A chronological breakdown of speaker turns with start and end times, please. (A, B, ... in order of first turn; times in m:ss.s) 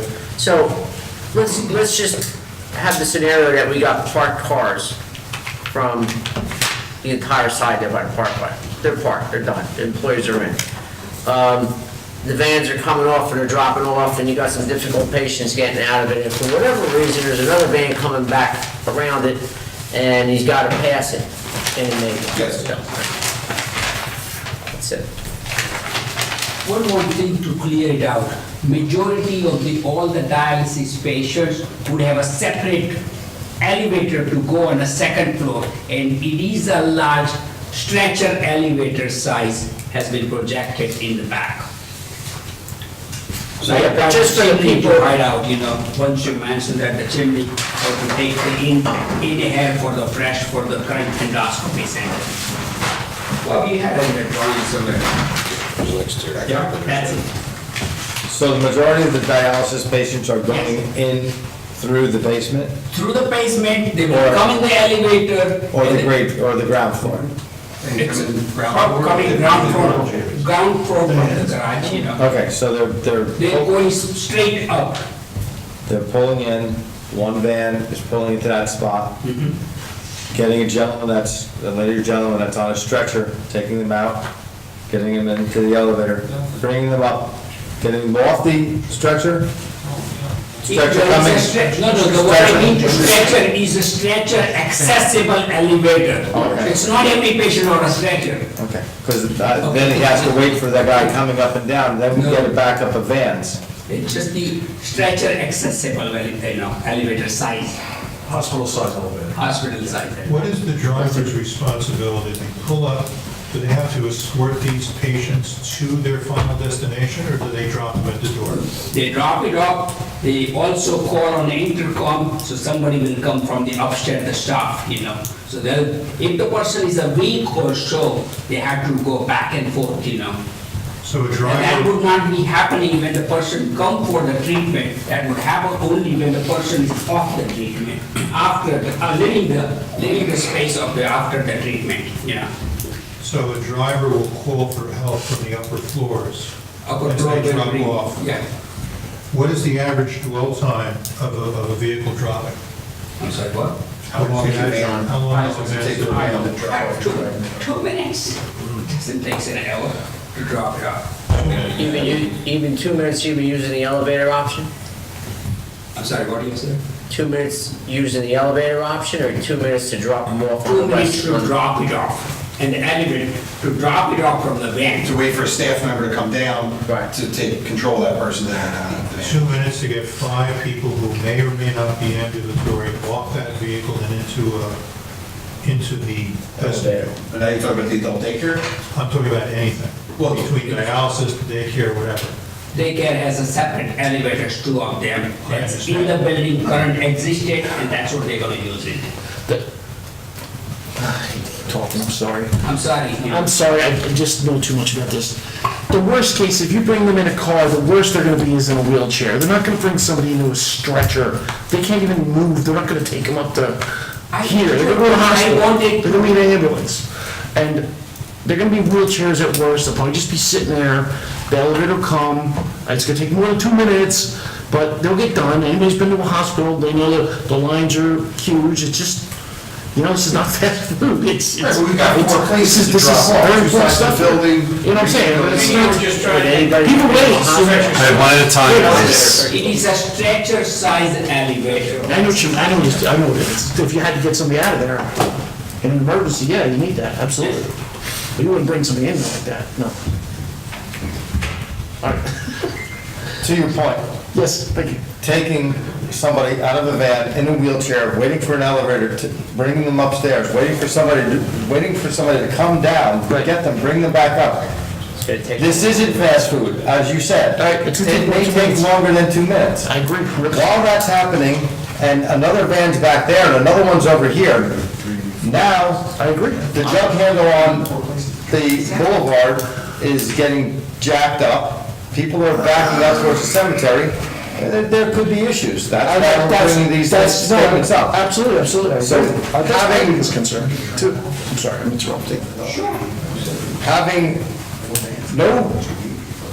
0:00.4-0:00.8 A
0:01.3-0:05.0 A
0:05.7-0:06.2 A
0:07.0-0:10.6 A
0:11.2-0:23.1 A
0:22.3-0:22.7 B
0:24.7-0:25.0 A
0:26.6-0:33.0 C
0:33.6-0:41.7 C
0:43.6-0:45.0 A
0:43.6-0:52.3 C
0:53.4-0:55.1 C
0:55.8-0:57.0 D
0:56.4-0:57.2 C
0:58.3-1:02.8 E
1:02.9-1:06.1 C
1:04.1-1:04.4 E
1:05.7-1:07.3 E
1:07.8-1:10.4 B
1:08.0-1:12.2 C
1:12.2-1:13.7 E
1:13.4-1:15.0 C
1:15.9-1:19.2 E
1:19.2-1:19.6 C
1:20.3-1:24.3 E
1:24.9-1:29.5 E
1:30.6-1:38.5 C
1:30.7-1:33.4 E
1:36.3-1:36.8 E
1:38.6-1:43.6 E
1:39.6-1:40.6 C
1:42.1-1:42.6 C
1:43.9-1:47.8 C
1:48.3-1:49.3 D
1:49.3-1:50.4 C
1:50.2-1:58.7 F
1:51.0-1:51.2 C
1:58.9-2:10.4 C
2:11.0-2:11.9 F
2:11.4-2:22.5 C
2:23.2-2:26.5 F
2:26.8-2:28.4 C
2:27.0-2:28.3 F
2:29.3-2:32.6 F
2:33.2-2:33.8 C
2:34.1-2:37.7 B
2:34.1-2:36.5 F
2:34.6-2:35.1 A
2:35.3-2:41.1 C
2:41.3-2:41.8 F
2:41.5-2:44.7 A
2:46.0-2:46.8 C
2:47.1-2:51.5 A
2:50.6-2:55.1 C
2:55.0-2:59.5 B
2:59.2-3:04.8 F
3:05.6-3:07.2 F
3:06.6-3:07.1 A
3:07.2-3:08.6 B
3:08.9-3:12.3 F
3:10.2-3:10.7 B
3:12.7-3:19.1 C
3:15.4-3:16.2 F
3:21.0-3:22.5 G
3:22.6-3:23.5 C
3:23.3-3:25.4 G
3:25.9-3:33.8 G
3:34.3-3:36.4 C
3:34.4-3:37.9 G
3:38.4-3:49.3 G
3:49.9-3:59.4 G
3:51.6-3:56.7 B
3:56.1-3:59.6 A
3:57.5-3:59.4 D
3:57.6-3:58.4 B
3:58.6-4:03.0 C
4:02.0-4:05.2 G
4:05.8-4:07.7 G
4:08.4-4:10.0 G
4:12.0-4:12.5 G
4:13.4-4:14.1 E
4:14.3-4:15.0 G
4:15.2-4:24.7 E
4:24.6-4:25.2 D
4:25.2-4:26.4 A
4:25.6-4:29.9 E
4:26.0-4:26.3 D
4:27.6-4:28.9 G
4:29.8-4:30.8 G
4:30.5-4:34.8 E
4:34.8-4:35.1 D
4:35.4-4:36.1 E
4:36.2-4:37.0 G
4:36.5-4:38.5 D
4:36.7-4:38.0 E
4:38.5-4:48.2 E
4:46.0-4:52.5 G
4:49.0-4:50.2 E
4:50.3-4:51.5 D
4:52.4-4:53.8 D
4:52.6-4:53.0 C
4:53.8-4:54.5 E
4:54.8-4:55.3 D
4:55.3-4:55.9 E